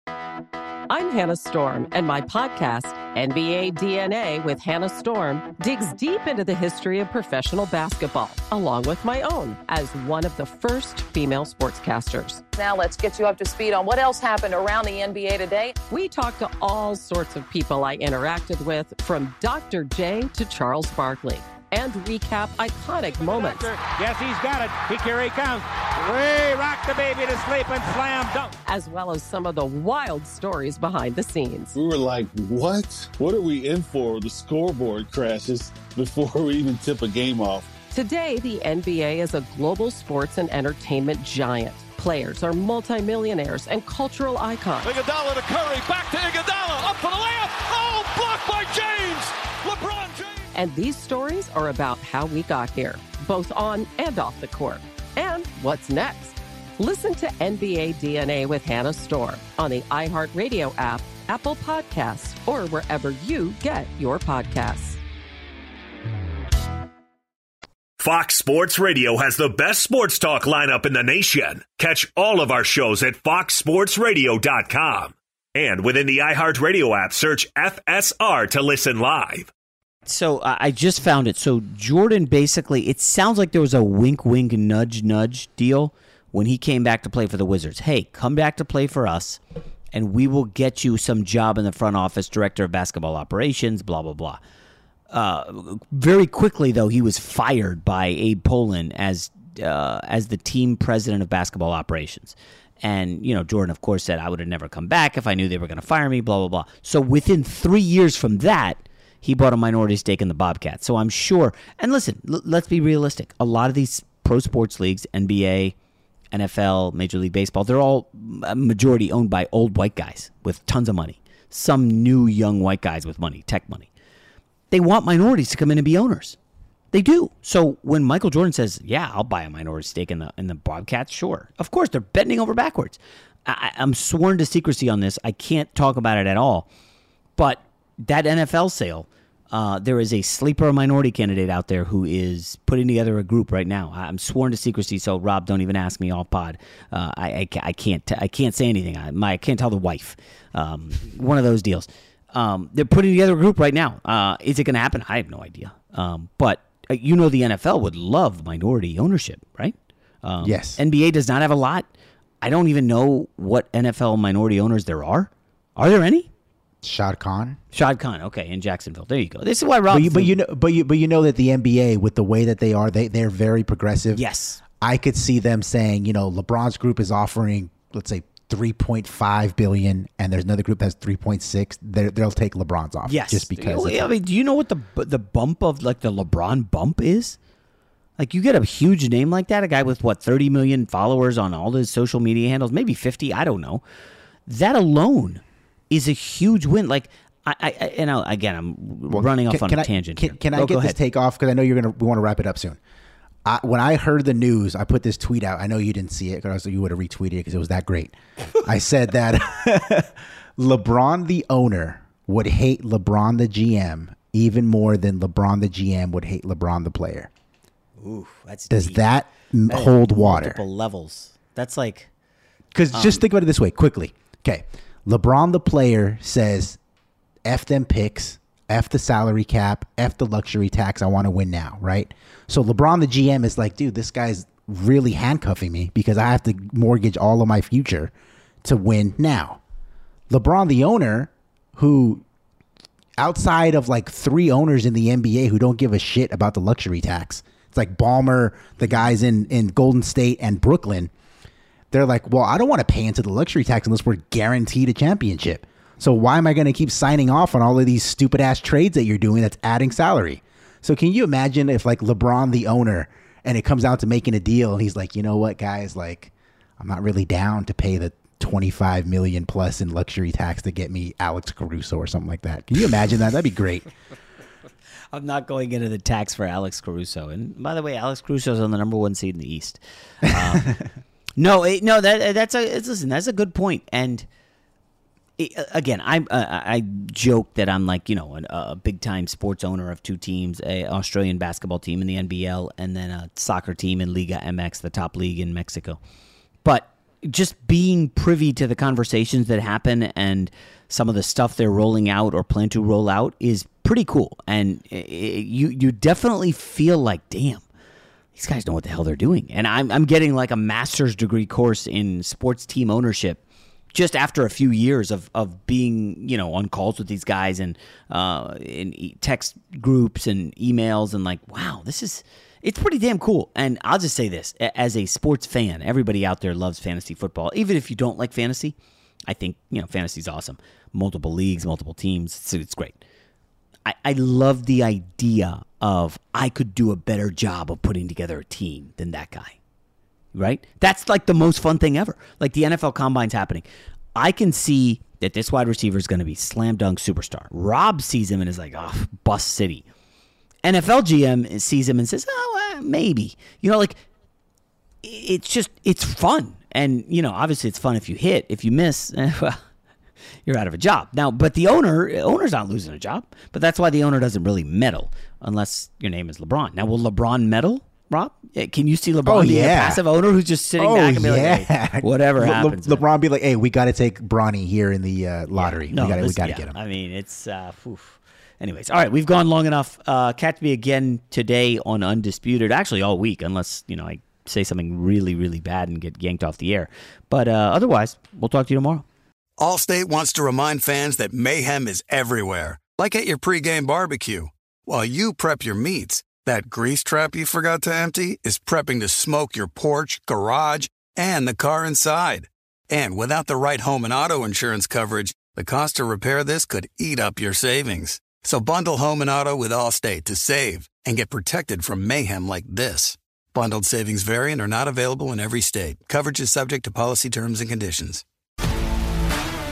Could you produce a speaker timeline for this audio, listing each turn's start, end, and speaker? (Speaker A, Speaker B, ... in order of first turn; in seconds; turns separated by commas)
Speaker A: 0.9-12.4, Speaker B: 12.6-15.8, Speaker A: 15.9-23.7, Speaker C: 23.2-28.6, Speaker A: 28.6-31.7, Speaker D: 31.7-37.7, Speaker A: 37.9-44.9, Speaker E: 44.8-50.5, Speaker A: 50.5-65.0, Speaker F: 68.0-79.5, Speaker G: 80.1-89.4, Speaker G: 89.9-94.4, Speaker G: 95.1-115.8, Speaker G: 116.3-123.9, Speaker G: 124.7-126.4, Speaker G: 126.9-136.7, Speaker G: 137.4-161.9, Speaker H: 160.4-160.8, Speaker G: 162.4-166.3, Speaker H: 166.8-167.6, Speaker G: 167.7-170.4, Speaker H: 169.9-174.2, Speaker G: 174.2-174.6, Speaker H: 174.8-184.1, Speaker G: 183.1-187.4, Speaker G: 188.2-193.8, Speaker G: 194.5-201.0, Speaker H: 199.1-202.8, Speaker H: 203.4-217.3, Speaker G: 218.0-219.1, Speaker H: 218.7-220.6, Speaker G: 219.7-222.1, Speaker H: 222.7-226.8, Speaker G: 222.9-223.2, Speaker H: 227.4-238.1, Speaker H: 238.6-239.6, Speaker H: 240.3-242.2, Speaker H: 243.2-251.1, Speaker H: 251.9-273.9, Speaker G: 275.1-280.7, Speaker H: 280.3-280.9, Speaker G: 281.4-284.3, Speaker G: 285.4-296.0, Speaker G: 296.6-307.6, Speaker G: 308.4-313.4, Speaker G: 313.9-328.8, Speaker G: 329.3-333.0, Speaker G: 333.9-339.6, Speaker G: 340.3-349.9, Speaker G: 350.6-354.0, Speaker G: 355.0-359.6, Speaker G: 360.5-373.1, Speaker H: 369.3-370.0, Speaker H: 370.8-376.7, Speaker G: 375.6-389.1, Speaker I: 389.6-418.2